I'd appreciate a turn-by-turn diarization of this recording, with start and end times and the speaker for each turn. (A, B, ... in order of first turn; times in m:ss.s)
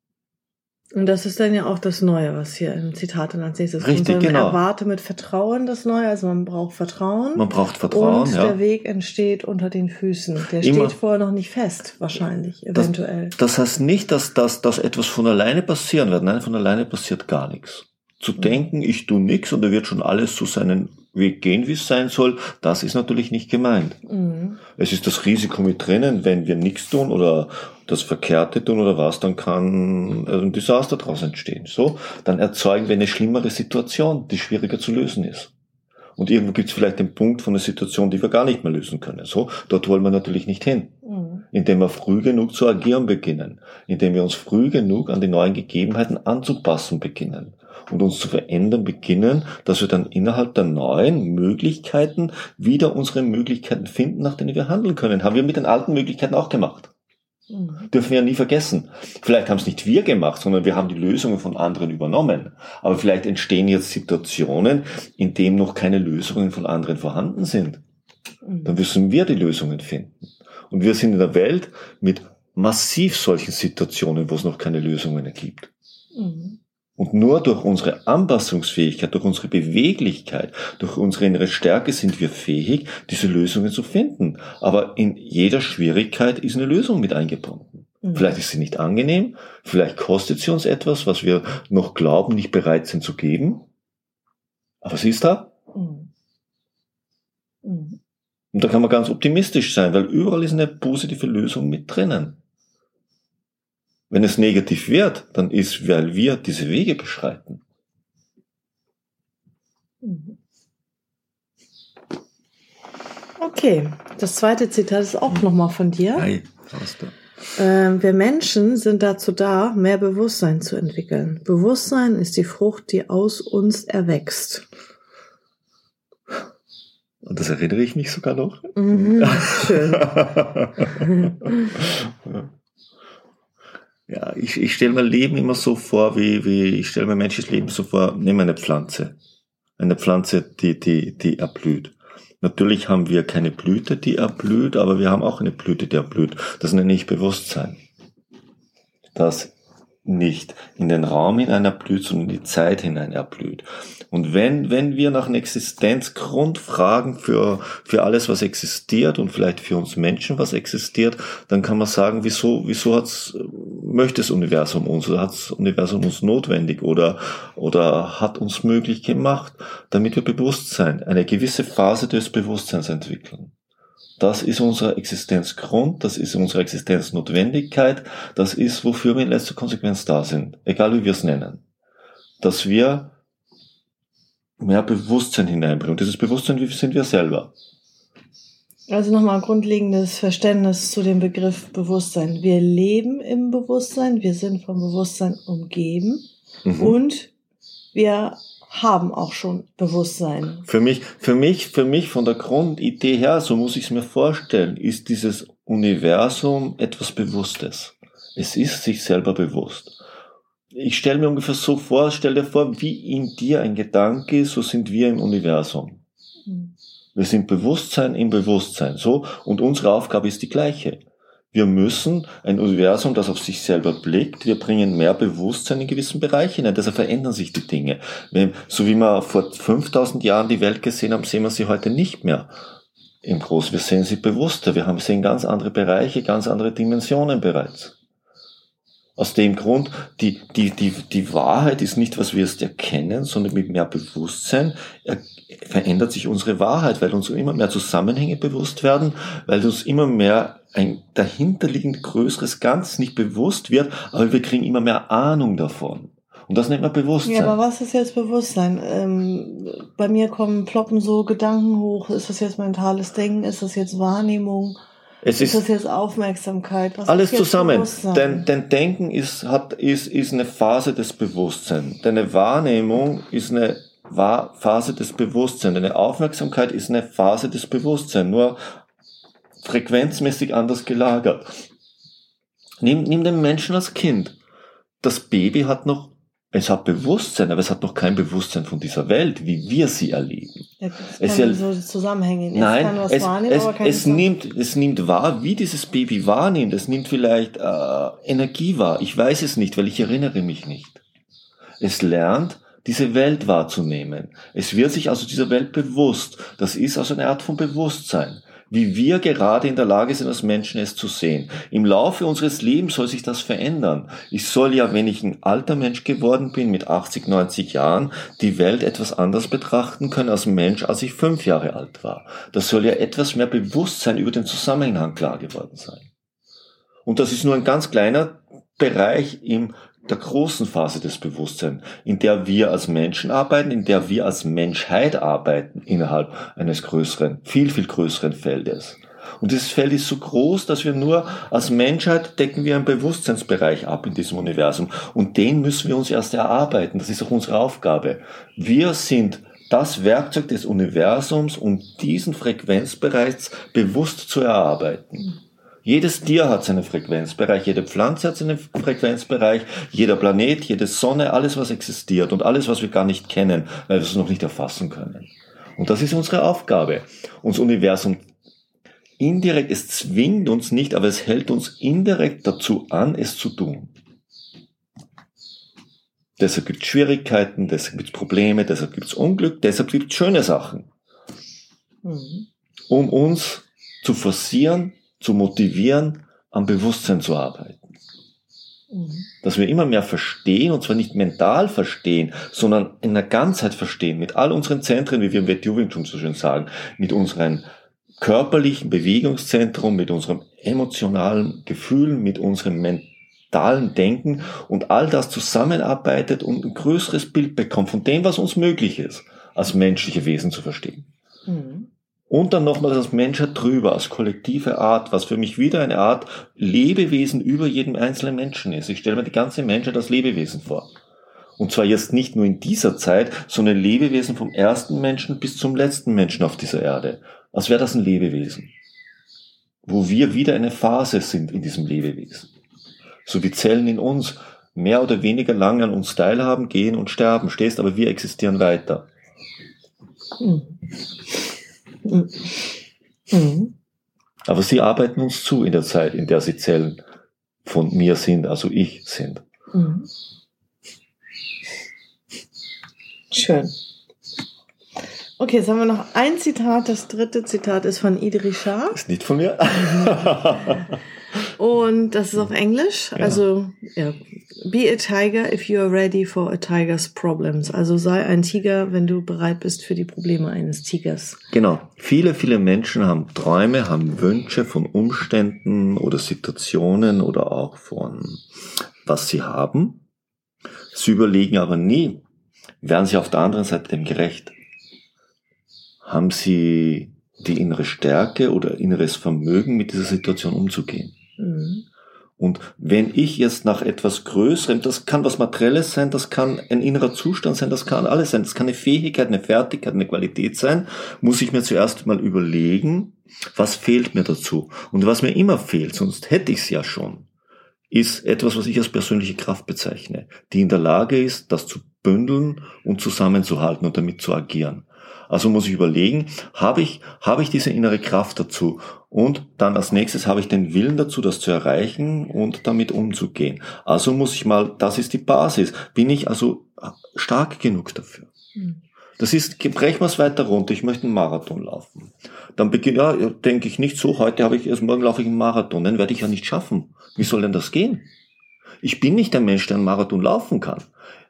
0:00.9-0:13.4 A
0:03.8-0:04.6 B
0:07.4-0:08.6 B
0:10.6-0:11.0 B
0:12.8-0:24.0 B
0:18.4-0:18.6 A
0:24.1-0:24.6 A
0:24.8-0:35.5 B
0:36.2-0:41.0 B
0:41.0-0:41.4 A
0:41.5-0:56.9 B
0:57.5-0:57.9 A
0:57.9-1:07.8 B
1:08.4-1:08.8 A
1:08.6-1:15.7 B
1:16.2-1:16.6 A
1:17.0-1:33.7 B
1:28.0-1:28.4 A
1:34.8-1:35.5 B
1:35.7-1:36.1 A
1:37.6-1:38.0 A
1:38.5-1:42.4 B
1:44.1-1:47.6 B
1:50.0-1:50.4 A
1:53.4-1:56.3 A
1:56.2-1:57.1 B
1:57.6-2:04.7 A
2:07.2-2:12.4 B
2:08.8-2:10.2 A
2:10.9-2:11.7 A
2:14.1-2:19.2 B
2:19.8-2:27.8 B
2:29.2-2:29.5 B
2:30.0-2:53.5 B
2:54.2-3:01.6 B
3:02.4-3:03.1 B
3:04.6-3:07.5 B
3:08.9-3:16.2 A
3:16.6-3:17.0 B
3:16.8-3:17.3 A
3:17.9-3:20.6 A
3:20.7-3:30.0 B
3:30.7-3:36.0 B
3:36.5-3:36.7 A
3:37.2-3:52.5 B
3:53.2-3:58.0 B
3:59.2-4:17.6 B
4:17.2-4:24.8 A
4:25.2-4:25.6 B
4:25.4-4:28.5 A
4:27.1-4:38.6 B
4:39.6-4:41.5 B
4:42.8-4:44.4 B
4:45.0-4:50.7 B
4:50.8-4:54.3 A
4:51.2-4:51.6 B
4:52.5-5:01.0 B
5:01.8-5:26.1 B
5:27.1-5:55.3 B
5:55.8-6:08.2 B
6:09.2-6:13.9 B
6:16.4-6:20.9 B
6:22.0-6:22.5 A
6:22.9-6:27.8 B
6:28.9-6:29.3 A
6:29.4-6:37.6 B
6:38.2-6:51.1 B
6:51.5-6:51.9 A
6:52.3-7:00.9 B
7:01.6-7:08.7 B
7:09.9-7:12.5 B
7:13.2-7:19.1 B
7:20.4-7:20.8 A
7:22.0-7:23.7 A
7:24.5-7:27.0 B
7:27.6-7:29.4 B
7:29.7-7:30.1 A
7:33.3-7:33.7 A
7:35.4-7:39.0 A
7:38.9-7:40.9 B
7:39.8-7:40.7 A
7:41.5-7:51.4 A
7:43.2-7:43.4 B
7:51.5-7:58.4 B
7:59.0-8:00.0 B
8:00.9-8:02.2 B
8:02.8-8:04.6 B
8:06.0-8:11.2 B
8:11.4-8:11.8 A
8:12.4-8:27.3 B
8:27.9-8:48.3 B
8:49.2-8:58.1 B
8:58.8-9:00.9 B